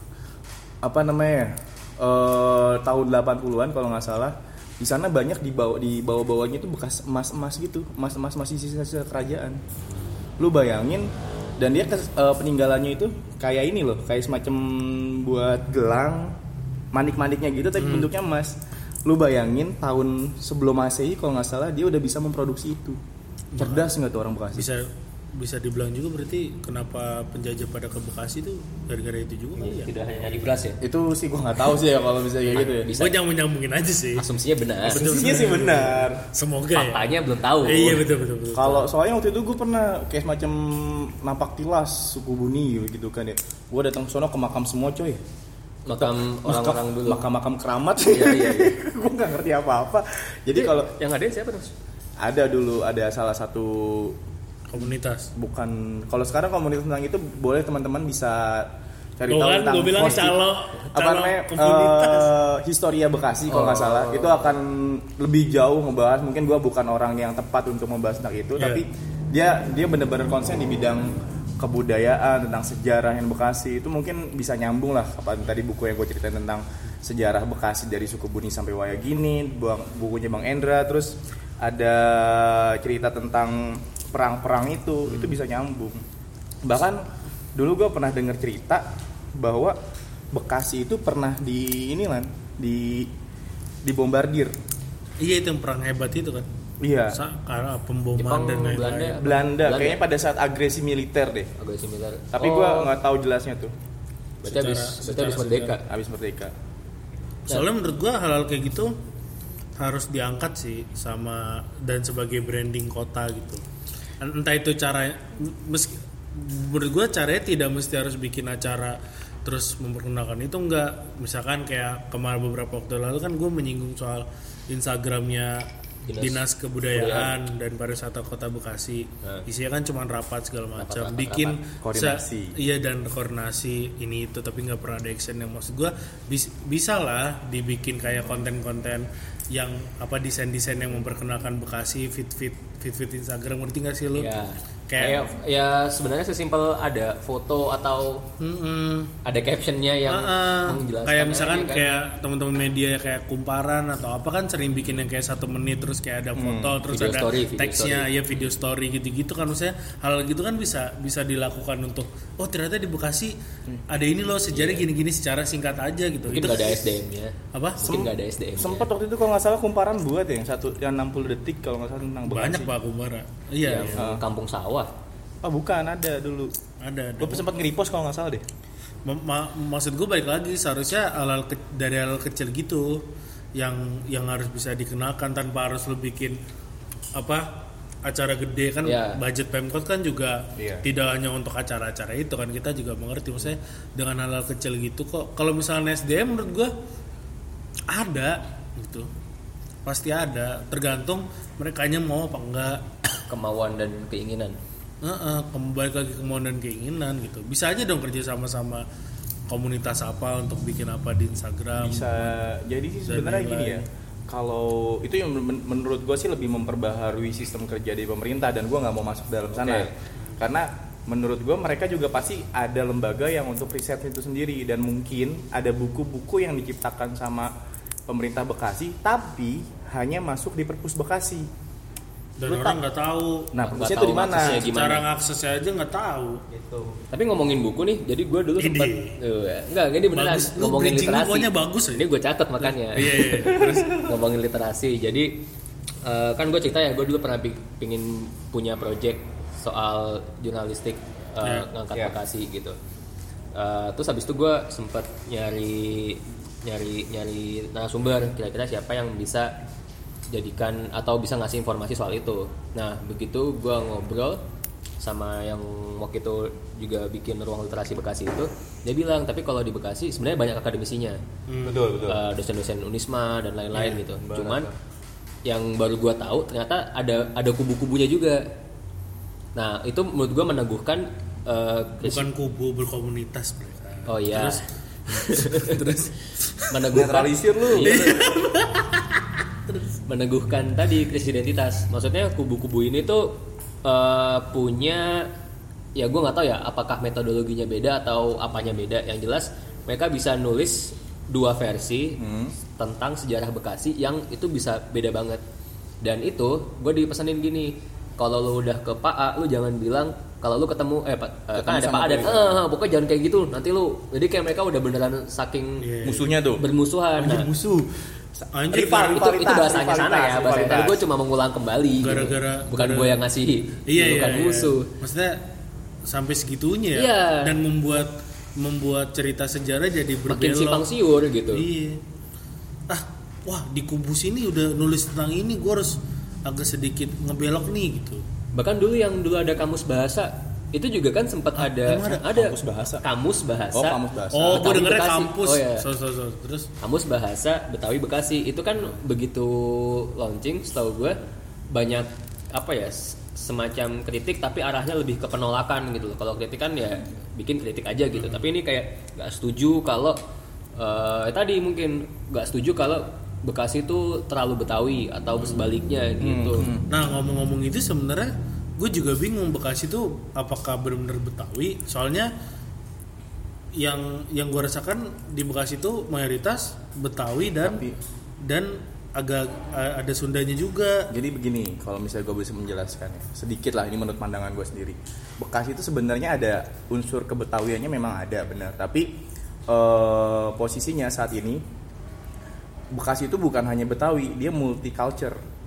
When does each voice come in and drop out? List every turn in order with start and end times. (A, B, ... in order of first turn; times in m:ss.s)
0:00.8-0:09.6 A
0:10.4-0:16.4 A
0:16.9-0:23.0 A
0:17.8-0:18.1 B
0:23.5-0:23.9 B
0:23.6-0:24.7 A
0:24.5-0:29.9 B
0:29.6-0:30.8 C
0:30.8-0:32.9 A
0:32.5-0:33.2 C
0:33.0-0:34.2 B
0:34.2-0:35.0 C
0:34.8-0:38.9 B
0:34.9-0:36.2 A
0:36.7-0:38.0 C
0:38.5-0:45.2 A
0:45.8-0:47.2 C
0:45.9-0:50.9 A
0:48.1-0:48.8 C
0:50.5-0:51.7 C
0:52.2-0:54.2 A
0:54.7-0:55.3 B
0:54.8-1:00.4 A
0:59.3-1:02.3 B
1:00.9-1:26.0 A
1:03.5-1:04.5 C
1:08.6-1:08.8 B
1:26.6-1:29.8 A
1:30.3-1:33.1 A
1:33.8-1:34.5 A
1:35.2-1:36.5 B
1:36.8-1:37.2 A
1:37.1-1:39.3 B
1:38.2-1:40.0 C
1:39.2-1:41.5 A
1:41.6-1:42.9 C
1:42.3-1:43.7 A
1:44.4-1:45.8 C
1:44.4-1:45.8 B
1:45.9-1:46.5 A
1:47.5-1:48.9 B
1:49.8-1:53.6 B
1:54.2-2:05.7 B
2:06.0-2:07.3 C
2:06.2-2:24.3 B
2:10.8-2:11.6 C
2:11.8-2:12.6 A
2:24.2-2:28.2 C
2:24.9-2:25.3 B
2:28.4-2:29.1 B
2:29.2-2:31.9 C
2:30.1-2:43.4 B
2:36.4-2:36.8 A
2:36.8-2:38.5 C
2:43.9-2:46.9 B
2:44.5-2:44.9 C
2:46.3-2:48.9 C
2:47.5-2:47.8 B
2:47.8-2:52.7 A
2:52.3-2:54.1 B
2:53.6-2:54.9 C
2:54.0-2:54.2 A
2:55.4-2:56.5 A
2:56.8-2:57.5 B
2:57.2-2:58.4 A
2:59.0-3:03.0 B
3:03.6-3:06.4 B
3:07.1-3:16.7 B
3:08.8-3:09.2 C
3:10.6-3:10.8 A
3:17.9-3:19.1 B
3:19.8-3:22.9 B
3:23.3-3:24.6 C
3:25.0-3:28.8 B
3:29.5-3:32.4 B
3:31.8-3:47.5 A
3:33.1-3:33.8 B
3:39.5-3:39.9 C
3:48.1-3:51.5 A
3:52.4-3:53.5 B
3:52.4-3:52.8 A
3:53.5-3:54.7 A
3:53.6-3:55.0 C
3:54.3-3:56.4 B
3:56.5-3:56.9 A
3:57.1-4:05.4 C
3:58.6-3:59.2 B
4:00.1-4:04.0 B
4:03.5-4:04.0 A
4:06.0-4:12.8 C
4:11.4-4:11.7 B
4:13.5-4:19.6 C
4:20.3-4:24.4 C
4:25.0-4:31.2 C
4:31.5-4:31.9 B
4:31.6-4:32.2 A
4:32.0-4:34.7 C
4:33.7-4:34.7 A
4:35.4-4:38.4 C
4:39.5-4:42.3 C
4:42.0-4:46.7 B
4:44.1-4:46.1 C
4:46.7-4:48.1 C
4:46.9-4:48.3 A
4:47.8-4:49.9 B
4:50.1-4:55.3 C
4:56.0-5:02.2 C
5:02.2-5:02.6 A
5:02.7-5:05.4 C
5:06.0-5:15.9 C
5:11.5-5:12.6 A
5:15.8-5:16.3 B
5:16.0-5:16.6 A
5:16.6-5:17.5 C
5:17.2-5:21.0 A
5:18.5-5:19.3 B
5:19.0-5:24.9 C
5:22.0-5:23.2 B
5:23.9-5:25.4 B
5:26.0-5:30.8 B
5:26.9-5:27.6 C
5:30.3-5:31.6 C
5:31.5-5:32.0 B
5:32.9-5:38.2 B
5:38.5-5:45.8 C
5:41.6-5:42.3 B
5:42.3-5:43.0 A
5:43.7-5:44.6 A
5:44.3-5:46.7 B
5:46.8-5:51.2 C
5:51.7-6:00.2 C
6:00.8-6:06.7 C
6:06.2-6:06.9 A
6:06.9-6:12.3 B
6:13.8-6:17.8 B
6:17.6-6:18.0 A
6:18.4-6:21.1 B
6:21.1-6:29.2 A
6:29.7-6:31.6 A
6:32.9-6:35.4 A